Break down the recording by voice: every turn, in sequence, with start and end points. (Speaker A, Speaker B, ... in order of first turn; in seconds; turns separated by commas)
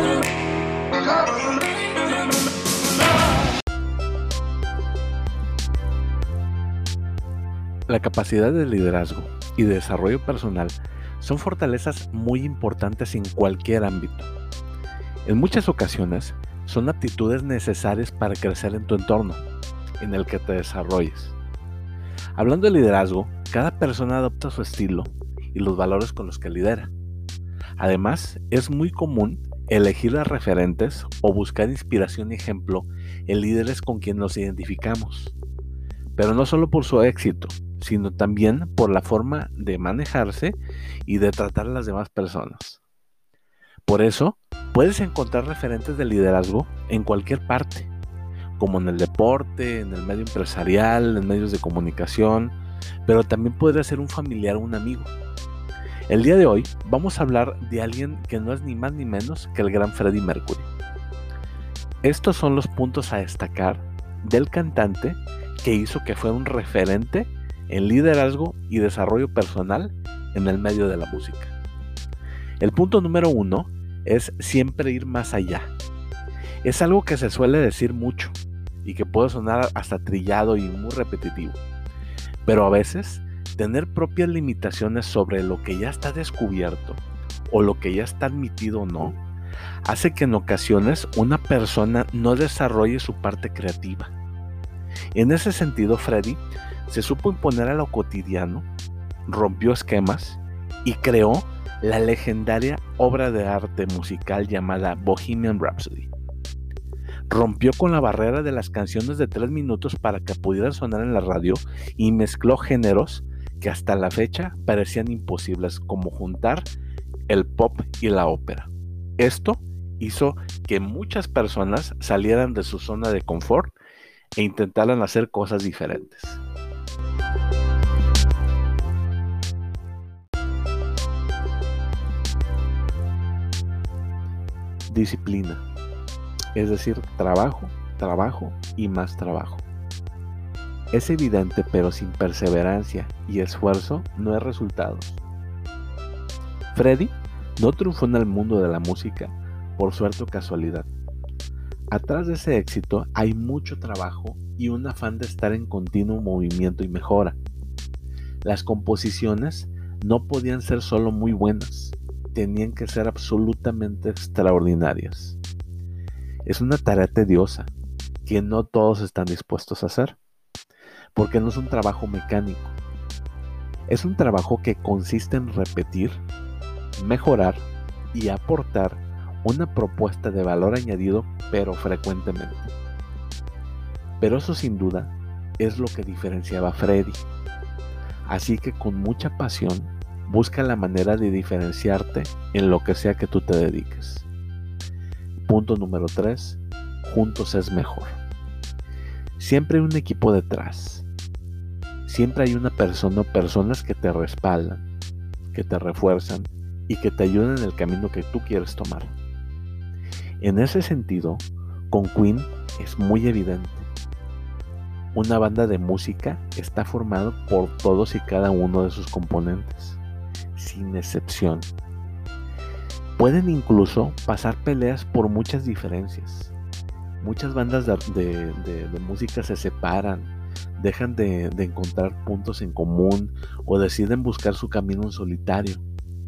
Speaker A: 7.9-14.3, Speaker A: 15.2-19.4, Speaker A: 20.0-21.4, Speaker A: 22.4-26.9, Speaker A: 27.8-35.4, Speaker A: 36.2-42.8, Speaker A: 43.9-47.9, Speaker A: 48.6-52.5, Speaker A: 53.1-55.1, Speaker A: 56.1-60.7, Speaker A: 62.0-71.5, Speaker A: 72.6-75.7, Speaker A: 76.6-81.6, Speaker A: 82.5-89.2, Speaker A: 89.8-94.1, Speaker A: 95.2-98.7, Speaker A: 99.3-106.1, Speaker A: 107.3-116.7, Speaker A: 117.3-123.8, Speaker A: 124.4-126.4, Speaker A: 134.9-135.6, Speaker A: 136.6-139.7, Speaker A: 140.9-145.2, Speaker A: 146.7-150.9, Speaker A: 151.9-157.4, Speaker A: 158.4-165.4, Speaker A: 166.5-167.7, Speaker A: 168.2-170.2, Speaker A: 171.2-172.8, Speaker A: 173.9-176.2, Speaker A: 176.9-182.7, Speaker A: 184.2-187.3, Speaker A: 188.3-194.3, Speaker A: 195.5-198.2, Speaker A: 199.4-201.1, Speaker A: 202.1-204.8, Speaker A: 205.5-209.1, Speaker A: 210.4-213.9, Speaker A: 215.1-220.0, Speaker A: 220.6-221.7, Speaker A: 223.2-226.5, Speaker A: 227.2-235.8